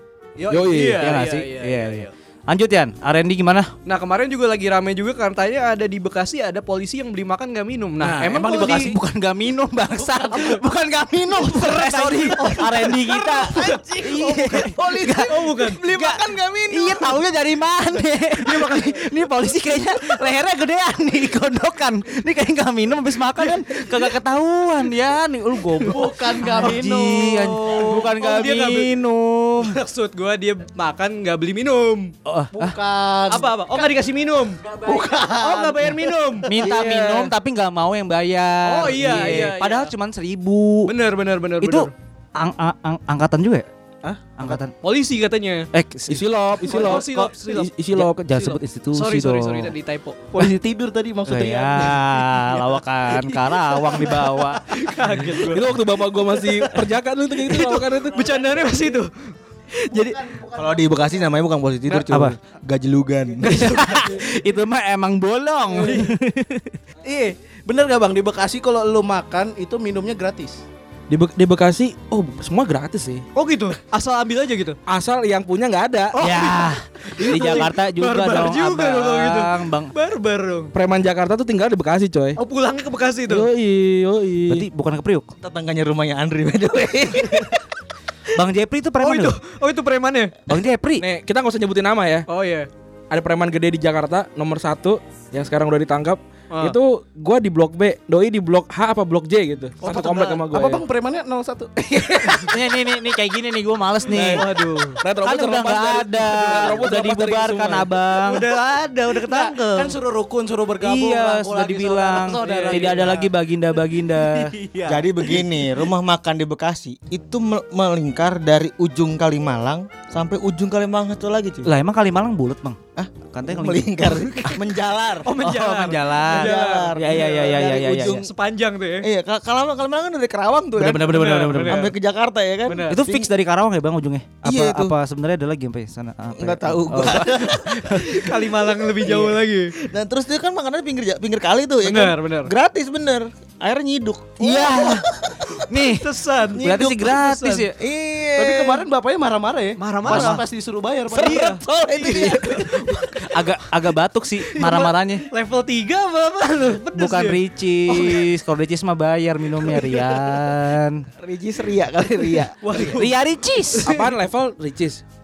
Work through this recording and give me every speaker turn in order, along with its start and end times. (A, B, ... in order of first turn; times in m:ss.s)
0:00.4-0:01.4 A
0:00.5-0:01.1 B
0:00.7-0:02.1 C
0:00.9-0:03.7 D
0:03.9-0:09.0 C
0:08.0-0:08.5 B
0:08.0-0:15.3 D
0:08.3-0:08.9 A
0:10.0-0:10.6 A
0:11.5-0:14.0 C
0:11.7-0:12.9 A
0:13.4-0:17.2 E
0:15.2-0:15.8 C
0:15.8-0:29.8 D
0:18.4-0:19.1 C
0:25.8-0:28.1 A
0:27.7-0:28.9 C
0:29.6-0:32.1 C
0:32.3-0:32.8 D
0:32.5-0:33.9 A
0:33.3-0:37.0 C
0:34.6-0:36.1 A
0:36.4-0:40.9 D
0:38.6-0:39.9 C
0:40.9-0:41.9 C
0:41.6-0:43.7 D
0:44.0-0:44.6 A
0:44.4-0:44.7 D
0:44.8-0:45.7 C
0:45.7-0:47.3 D
0:46.1-0:48.2 B
0:46.7-0:47.7 C
0:47.9-0:49.7 D
0:48.4-0:50.3 C
0:50.3-0:54.2 A
0:51.3-0:54.6 D
0:54.1-0:55.7 C
0:55.4-0:58.2 B
0:57.5-1:00.2 C
0:58.1-0:59.0 A
0:59.9-1:01.1 A
1:00.5-1:03.8 E
1:01.9-1:02.4 D
1:03.4-1:04.2 C
1:03.4-1:06.8 D
1:05.7-1:06.1 C
1:07.0-1:10.6 A
1:11.1-1:13.2 B
1:13.4-1:14.8 C
1:14.9-1:16.2 B
1:16.1-1:20.7 C
1:16.2-1:19.9 D
1:20.7-1:22.4 B
1:22.4-1:23.5 C
1:23.3-1:24.7 B
1:24.5-1:25.3 D
1:25.4-1:27.6 E
1:28.3-1:29.4 D
1:29.0-1:30.4 C
1:30.5-1:31.0 D
1:31.0-1:32.3 B
1:32.3-1:32.7 C
1:33.1-1:40.8 B
1:39.8-1:42.6 A
1:42.4-1:44.5 D
1:44.1-1:47.9 B
1:44.2-1:45.0 C
1:45.2-1:50.0 D
1:46.4-1:46.7 C
1:48.3-1:49.5 C
1:49.2-1:53.3 A
1:50.8-1:54.5 D
1:52.2-1:53.2 C
1:54.2-1:55.5 A
1:54.9-2:01.7 E
2:01.6-2:02.8 D
2:03.0-2:05.3 E
2:03.3-2:04.5 D
2:05.2-2:09.1 C
2:05.4-2:08.2 D
2:06.3-2:08.3 E
2:09.0-2:13.3 E
2:10.8-2:11.9 D
2:11.0-2:11.9 C
2:12.7-2:13.0 C
2:12.9-2:18.2 D
2:14.4-2:15.0 E
2:16.4-2:25.6 E
2:18.0-2:19.8 C
2:21.8-2:22.5 C
2:24.4-2:25.1 D
2:25.7-2:27.7 D
2:25.9-2:27.7 C
2:26.5-2:27.2 E
2:27.7-2:28.9 E
2:28.4-2:31.4 A
2:29.8-2:30.4 C
2:30.0-2:30.4 D
2:31.1-2:33.2 E
2:31.2-2:33.0 C
2:33.2-2:35.3 D
2:34.5-2:38.3 C
2:36.9-2:41.1 D
2:41.2-2:42.9 E
2:42.6-2:43.2 C
2:42.8-2:44.0 D
2:43.8-2:45.0 B